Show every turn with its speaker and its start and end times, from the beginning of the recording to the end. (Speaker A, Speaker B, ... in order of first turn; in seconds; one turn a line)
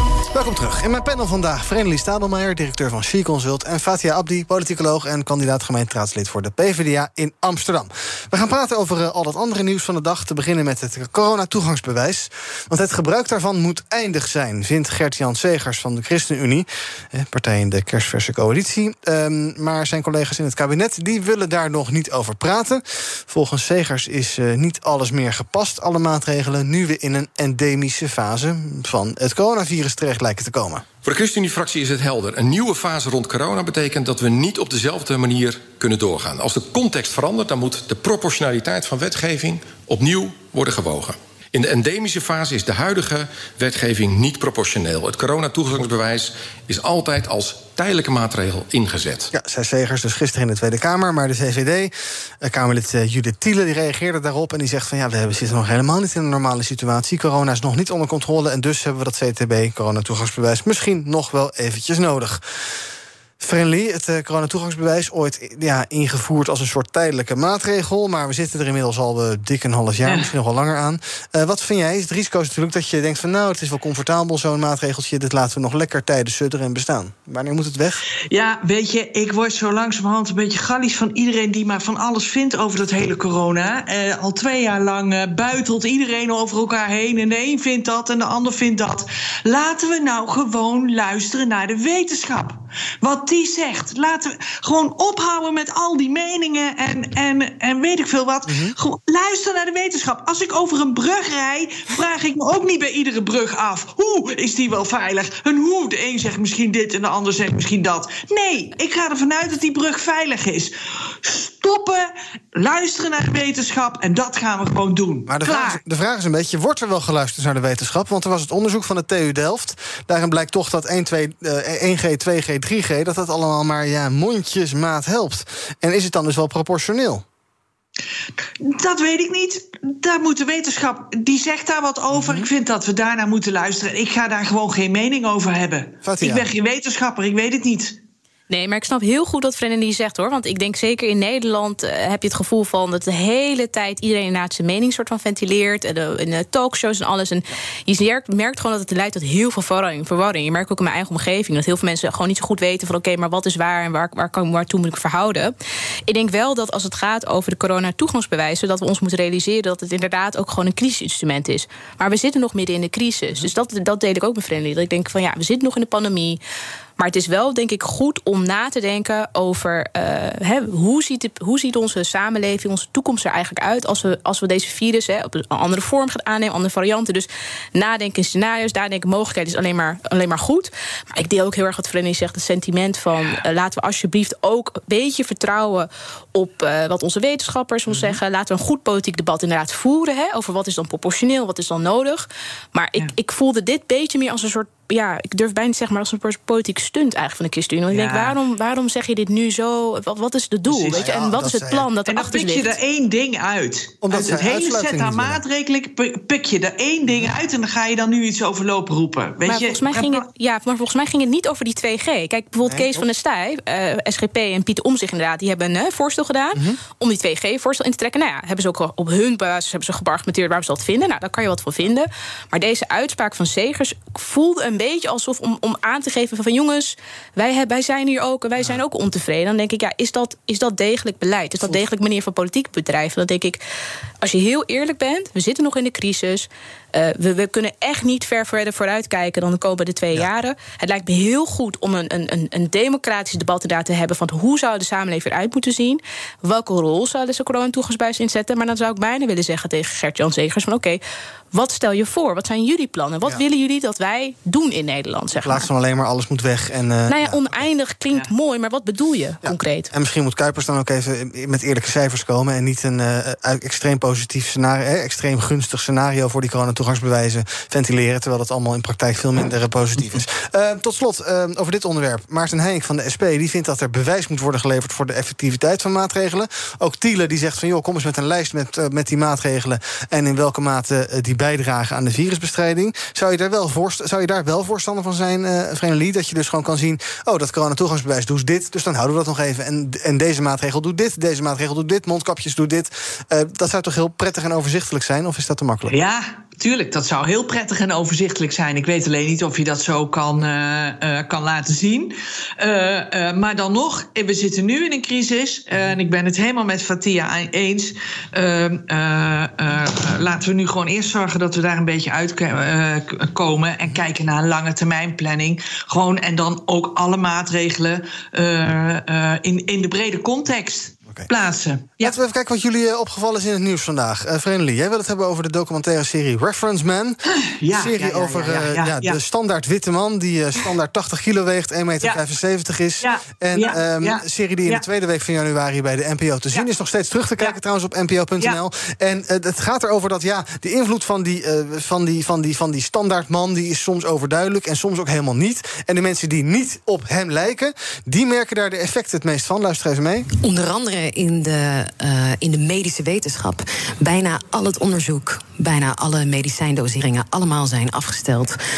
Speaker A: 0.3-30.9
Speaker B: 31.0-49.3
Speaker A: 49.3-62.4
Speaker A: 63.4-78.0
Speaker C: 70.0-70.3
Speaker C: 78.3-115.8
Speaker A: 98.5-98.7
Speaker A: 115.3-127.2
Speaker C: 128.6-138.0
Speaker A: 132.1-132.5
Speaker A: 136.0-136.4
Speaker D: 138.5-155.5
Speaker D: 156.1-166.4
Speaker D: 167.0-202.8
Speaker A: 187.9-188.2
Speaker C: 197.9-198.4
Speaker A: 200.9-201.9
Speaker C: 202.1-210.2
Speaker A: 204.0-205.4
Speaker D: 209.5-233.6
Speaker A: 212.6-213.1
Speaker D: 234.2-251.0
Speaker D: 251.5-255.7
Speaker A: 255.3-257.6
Speaker D: 257.1-259.9
Speaker A: 259.4-296.0
Speaker C: 295.9-322.1
Speaker A: 322.0-327.2
Speaker C: 327.6-329.2
Speaker A: 327.7-350.3
Speaker C: 333.0-334.8
Speaker E: 350.4-358.6